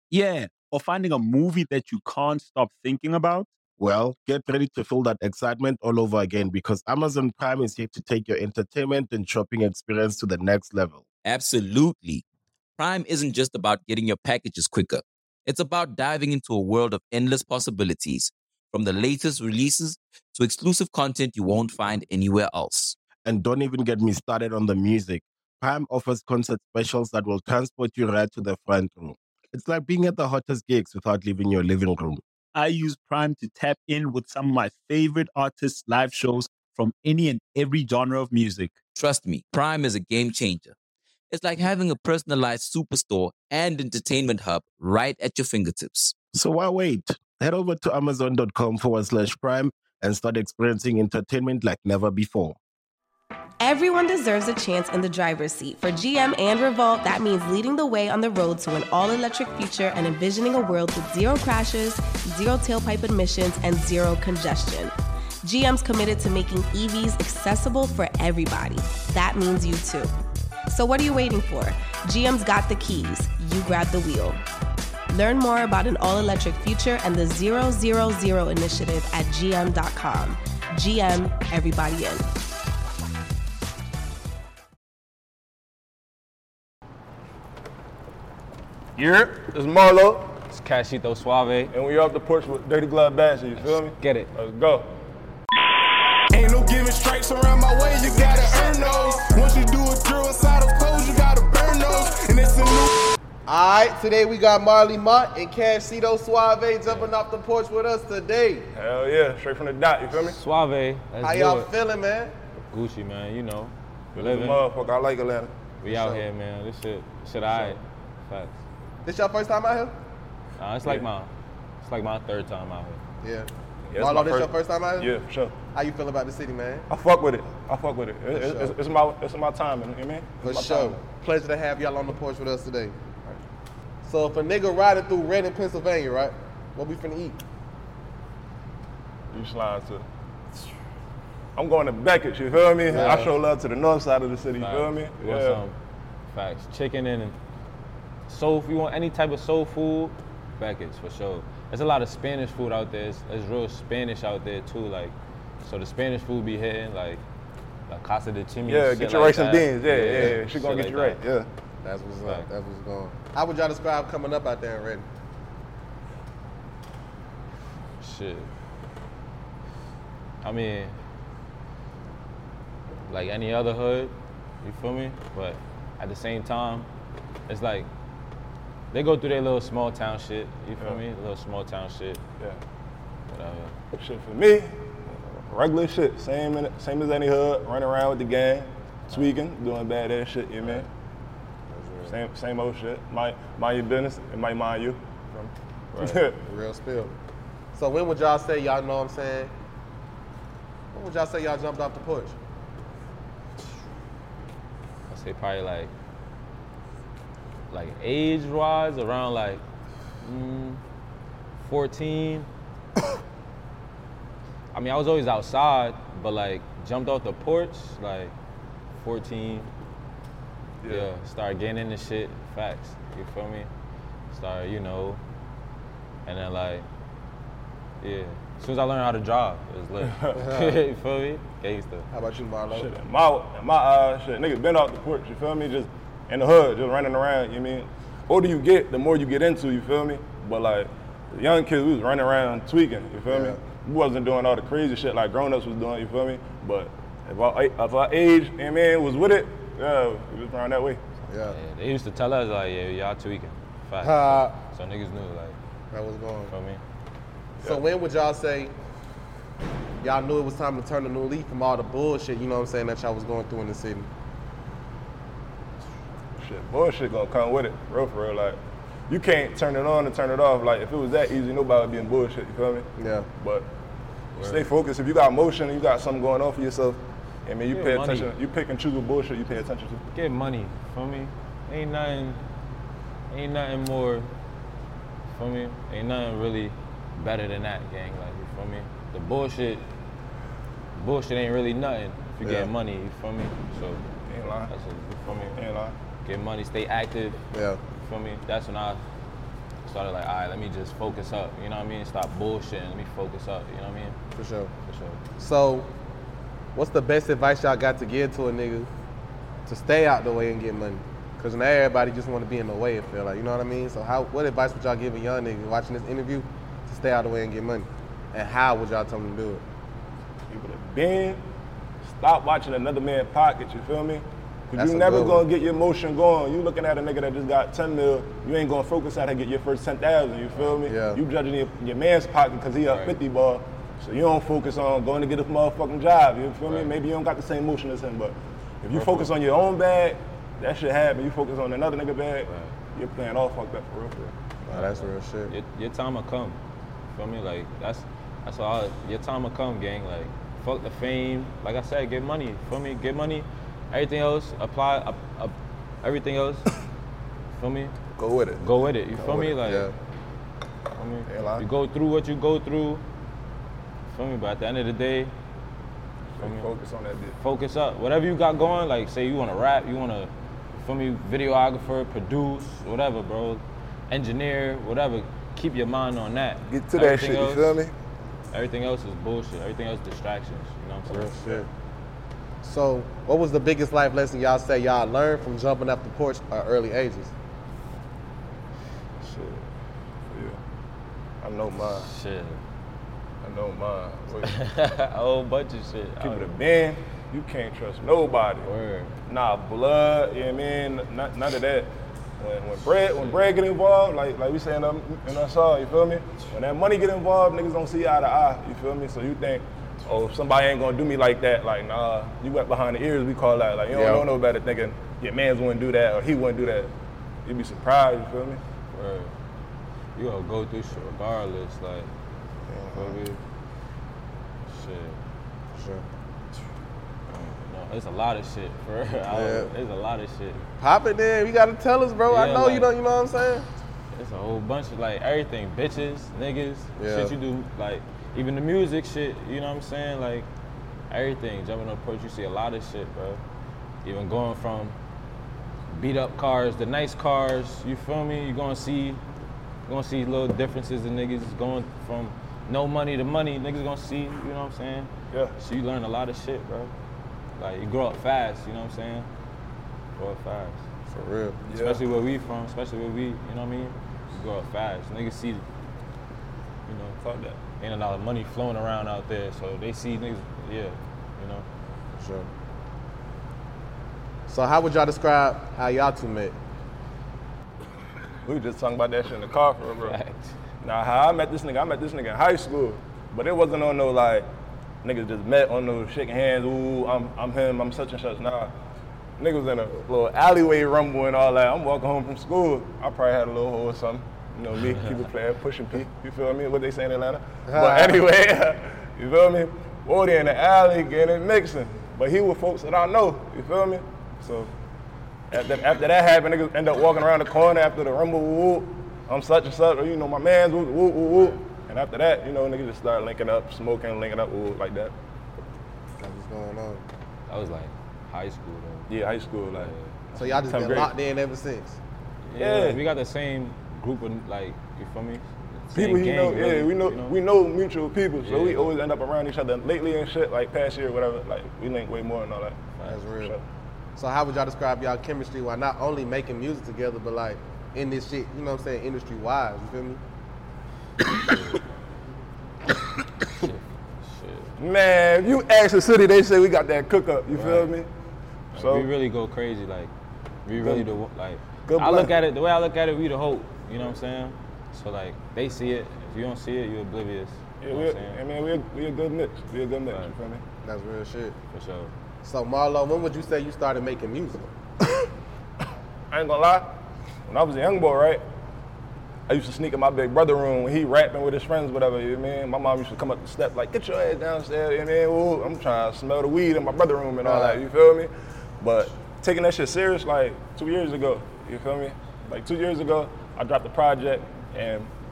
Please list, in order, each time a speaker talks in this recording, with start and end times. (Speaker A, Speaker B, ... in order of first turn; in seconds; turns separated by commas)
Speaker A: 0.1-3.5, Speaker B: 3.8-11.0, Speaker C: 11.2-12.2, Speaker C: 12.8-23.0, Speaker B: 23.2-32.2, Speaker A: 32.5-38.7, Speaker C: 39.0-40.7, Speaker C: 41.3-46.1, Speaker B: 46.3-52.6, Speaker D: 53.6-70.1, Speaker D: 70.7-74.4, Speaker D: 75.1-82.2, Speaker E: 89.0-90.3, Speaker F: 90.5-91.7, Speaker E: 91.7-94.9, Speaker F: 93.5-94.3, Speaker G: 96.3-103.0, Speaker H: 103.5-108.7, Speaker E: 108.7-110.4, Speaker F: 110.2-111.7, Speaker H: 111.2-112.3, Speaker F: 112.7-114.6, Speaker E: 114.1-115.5, Speaker F: 115.8-118.6, Speaker H: 115.9-116.2, Speaker E: 117.5-117.8, Speaker H: 119.0-119.9, Speaker F: 120.6-121.3, Speaker F: 121.8-123.0, Speaker H: 123.2-125.1, Speaker E: 123.9-125.5, Speaker H: 125.7-126.9, Speaker E: 126.9-131.0, Speaker H: 128.3-128.8, Speaker H: 130.4-132.9, Speaker H: 134.0-137.4, Speaker E: 139.3-140.1, Speaker E: 141.6-145.6, Speaker H: 142.9-143.3, Speaker F: 144.6-145.8, Speaker F: 146.3-147.4, Speaker F: 148.3-157.2, Speaker F: 157.9-161.2, Speaker E: 158.7-161.5, Speaker H: 161.8-165.1, Speaker F: 168.0-168.5, Speaker F: 170.4-170.9, Speaker F: 173.1-176.9, Speaker F: 177.5-177.9, Speaker F: 178.9-182.2, Speaker F: 183.3-183.8, Speaker E: 184.0-190.9, Speaker H: 191.7-192.2, Speaker E: 192.1-196.4, Speaker F: 195.9-196.2, Speaker H: 196.4-197.1, Speaker H: 197.7-199.5, Speaker H: 200.9-202.3, Speaker F: 205.1-205.9, Speaker F: 207.7-209.6, Speaker F: 210.2-210.8, Speaker F: 211.6-212.5, Speaker F: 214.7-218.3, Speaker F: 218.9-219.7, Speaker E: 220.8-221.1, Speaker F: 220.9-223.7, Speaker F: 224.3-225.2, Speaker F: 226.3-226.9, Speaker F: 228.0-232.1, Speaker E: 230.1-230.4, Speaker H: 230.3-230.7, Speaker H: 232.1-232.9, Speaker E: 232.7-251.0, Speaker H: 243.3-243.6, Speaker H: 251.3-251.6, Speaker F: 251.5-255.6, Speaker H: 254.0-254.6, Speaker H: 255.9-256.5, Speaker F: 256.5-256.8, Speaker H: 257.6-258.7, Speaker H: 260.0-264.1, Speaker E: 266.4-273.7, Speaker H: 273.0-273.3, Speaker F: 274.4-274.7, Speaker E: 274.4-280.0, Speaker F: 277.7-278.3, Speaker F: 280.1-282.4, Speaker F: 283.3-284.3, Speaker F: 285.3-289.8, Speaker F: 290.9-294.0, Speaker E: 294.3-294.7, Speaker F: 294.7-295.6, Speaker E: 295.5-295.9, Speaker F: 296.2-297.4, Speaker H: 297.5-297.8, Speaker F: 298.0-299.0, Speaker F: 299.9-304.2, Speaker H: 304.4-304.7, Speaker F: 304.9-305.2, Speaker H: 305.4-305.9, Speaker H: 306.8-308.9, Speaker H: 309.7-319.6, Speaker E: 320.5-321.4, Speaker E: 322.1-344.4, Speaker H: 324.8-325.5, Speaker H: 330.9-331.2, Speaker F: 332.9-333.2, Speaker F: 336.7-336.9, Speaker F: 338.9-339.3, Speaker F: 342.5-342.8, Speaker F: 344.7-346.6, Speaker H: 344.7-345.5, Speaker F: 347.1-356.7, Speaker F: 357.6-357.9, Speaker E: 358.1-358.6, Speaker F: 358.6-359.9, Speaker E: 359.2-359.6, Speaker H: 359.6-359.9, Speaker F: 361.0-363.0, Speaker E: 361.2-361.6, Speaker F: 364.1-365.3, Speaker E: 366.4-367.4, Speaker F: 366.4-366.7, Speaker F: 367.4-377.8, Speaker E: 376.6-377.9, Speaker F: 378.5-381.6, Speaker H: 381.1-381.7, Speaker H: 382.6-387.3, Speaker F: 389.2-389.6, Speaker E: 390.3-390.6, Speaker E: 391.4-392.1, Speaker F: 391.9-392.6, Speaker E: 393.4-394.6, Speaker F: 394.4-396.5, Speaker E: 396.2-398.7, Speaker F: 398.6-399.2, Speaker E: 399.3-416.9, Speaker H: 413.9-414.3, Speaker E: 417.4-418.6, Speaker F: 418.9-419.3, Speaker F: 420.2-422.1, Speaker E: 422.7-423.2, Speaker F: 422.9-423.4, Speaker F: 424.7-425.2, Speaker H: 425.8-426.1, Speaker F: 427.3-430.6, Speaker H: 429.3-429.7, Speaker H: 430.8-433.7, Speaker F: 432.3-432.9, Speaker F: 434.1-440.5, Speaker H: 437.0-437.3, Speaker F: 441.1-443.4, Speaker F: 444.0-445.0, Speaker F: 445.9-449.2, Speaker F: 449.9-456.9, Speaker F: 457.6-459.3, Speaker F: 460.2-460.8, Speaker H: 461.1-461.6, Speaker E: 461.7-462.0, Speaker F: 461.7-465.6, Speaker F: 466.9-471.7, Speaker H: 472.2-472.5, Speaker H: 474.5-476.6, Speaker E: 478.4-480.2, Speaker F: 480.1-480.6, Speaker E: 480.8-484.5, Speaker E: 485.0-488.7, Speaker E: 489.4-504.7, Speaker H: 497.7-498.3, Speaker E: 505.5-515.1, Speaker H: 516.2-517.0, Speaker F: 517.5-519.1, Speaker E: 519.1-521.1, Speaker F: 519.7-520.1, Speaker H: 520.4-522.0, Speaker F: 522.5-527.4, Speaker E: 522.6-523.0, Speaker E: 525.9-533.6, Speaker F: 528.4-528.9, Speaker H: 533.0-533.6, Speaker H: 534.1-540.2, Speaker F: 541.5-541.8, Speaker F: 543.5-544.7, Speaker E: 544.8-548.1, Speaker F: 547.5-547.9, Speaker E: 548.7-549.1, Speaker F: 548.7-550.1, Speaker F: 550.6-558.4, Speaker E: 550.8-551.1, Speaker E: 551.9-552.4, Speaker E: 557.8-560.6, Speaker H: 560.8-561.6, Speaker F: 561.7-562.1, Speaker H: 562.4-564.7, Speaker E: 566.3-567.0, Speaker E: 567.5-568.4, Speaker E: 569.5-585.1, Speaker H: 577.4-577.8